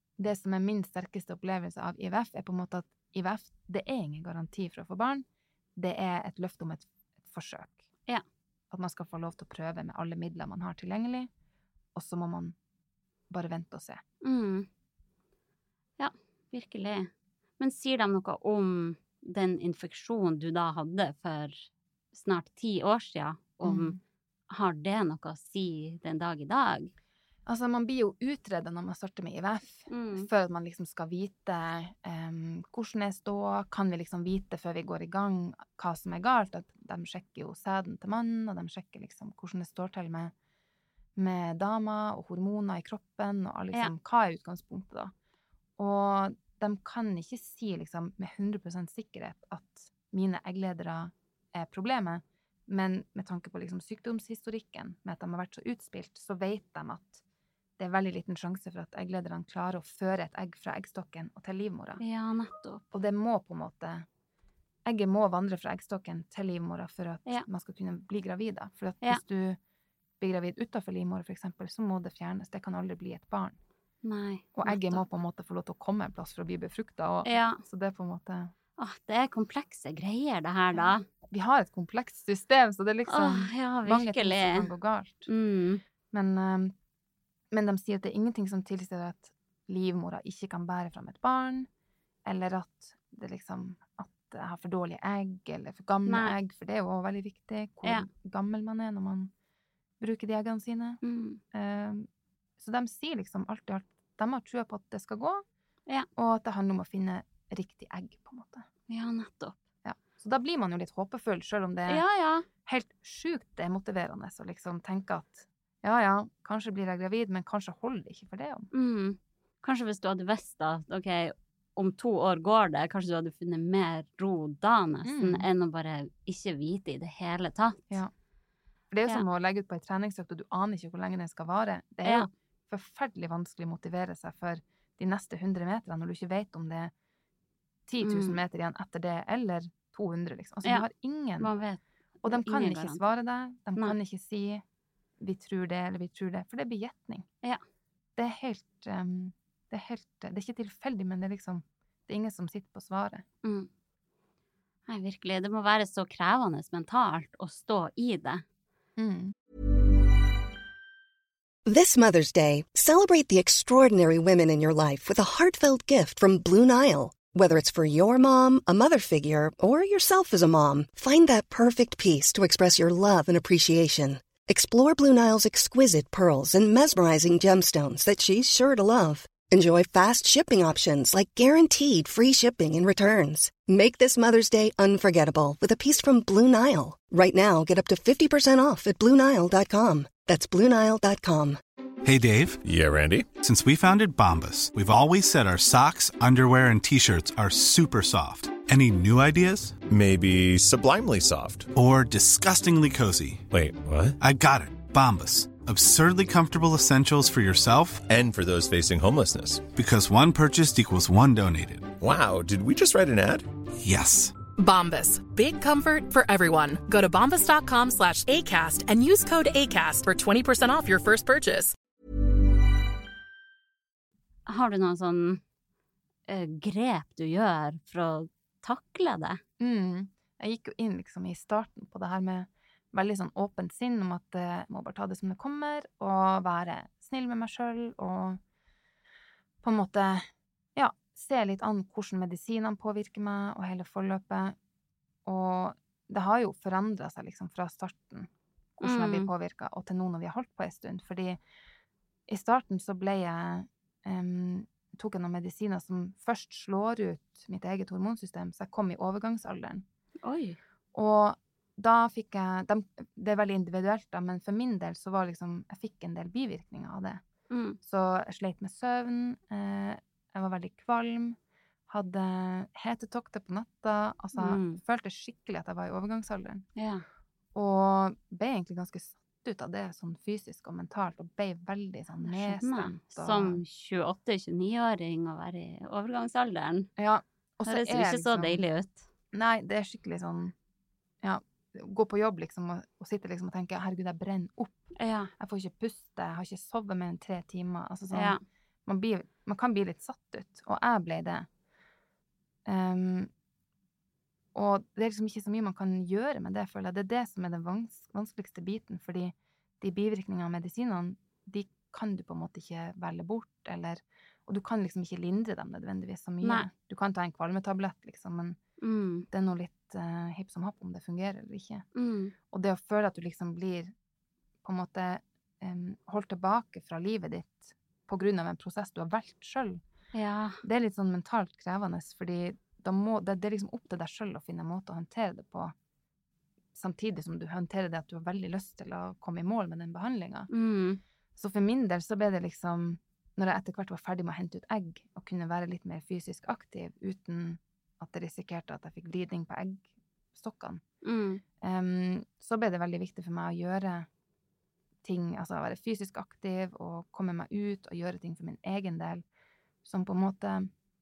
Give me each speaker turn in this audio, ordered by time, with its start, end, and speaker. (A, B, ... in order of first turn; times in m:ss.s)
0:00.2-0:05.2 A
0:05.8-0:07.8 A
0:08.7-0:11.3 A
0:12.0-0:12.6 A
0:13.3-0:14.0 A
0:14.2-0:14.7 B
0:16.0-0:24.0 B
0:23.6-0:24.0 A
0:24.5-0:26.9 B
0:27.5-0:40.3 A
0:29.9-0:30.3 B
0:41.2-0:45.1 A
0:45.8-0:57.2 A
0:57.8-1:02.0 A
1:02.0-1:02.8 B
1:02.9-1:04.0 A
1:04.9-1:09.6 A
1:10.2-1:13.6 A
1:14.0-1:15.0 B
1:14.6-1:18.5 A
1:17.3-1:17.6 B
1:18.8-1:21.0 B
1:20.7-1:25.3 A
1:23.1-1:24.7 B
1:25.3-1:25.8 B
1:26.1-1:26.7 A
1:27.5-1:31.7 A
1:32.3-1:39.3 A
1:36.1-1:36.4 B
1:40.0-1:41.0 A
1:41.0-1:41.4 B
1:41.5-1:42.1 A
1:42.6-1:45.4 A
1:46.2-1:48.7 A
1:48.9-1:49.6 B
1:49.8-1:52.0 A
1:51.9-1:52.5 B
1:52.6-1:58.7 A
1:58.7-2:07.9 B
2:05.1-2:05.5 A
2:08.9-2:16.9 A
2:12.0-2:12.3 B
2:17.9-2:21.5 A
2:18.0-2:18.4 B
2:21.4-2:23.0 B
2:22.2-2:24.6 A
2:25.2-2:27.3 A
2:28.2-2:33.2 A
2:34.9-2:38.4 B
2:39.0-2:39.3 A
2:41.7-3:11.6 C
3:12.0-3:12.6 D
3:12.6-3:13.3 E
3:13.4-3:19.8 D
3:19.9-3:21.7 E
3:21.8-3:23.4 D
3:23.5-3:24.2 E
3:24.2-3:28.1 D
3:28.1-3:29.7 E
3:29.7-3:31.9 D
3:32.0-3:33.5 E
3:33.8-3:34.3 D
3:34.6-3:41.8 F
3:44.5-3:45.4 B
3:46.3-3:49.4 B
3:49.6-3:58.4 A
3:59.6-4:04.6 A
4:05.3-4:11.4 A
4:08.8-4:09.3 B
4:12.3-4:19.8 A
4:20.2-4:20.6 B
4:21.0-4:27.2 A
4:27.5-4:27.8 B
4:27.8-4:31.4 A
4:31.9-4:36.7 A
4:34.4-4:34.8 B
4:36.8-4:37.0 B
4:37.6-4:43.6 A
4:42.3-4:46.9 B
4:47.0-4:48.6 A
4:47.6-4:49.1 B
4:49.3-4:50.5 A
4:51.2-4:54.8 A
4:55.0-4:55.3 B
4:55.4-5:01.5 A
4:58.1-4:58.4 B
5:02.7-5:03.3 A
5:04.6-5:18.6 A
5:16.4-5:16.7 B
5:18.8-5:19.3 B
5:19.3-5:21.8 A
5:22.0-5:22.3 B
5:22.5-5:23.9 A
5:24.6-5:29.8 A
5:30.1-5:30.6 B
5:30.6-5:35.7 A
5:36.8-5:40.5 A
5:40.5-5:41.0 B
5:41.4-5:50.8 A
5:51.0-5:51.4 B
5:51.6-5:54.1 A
5:55.0-5:59.2 A
5:59.8-6:00.7 A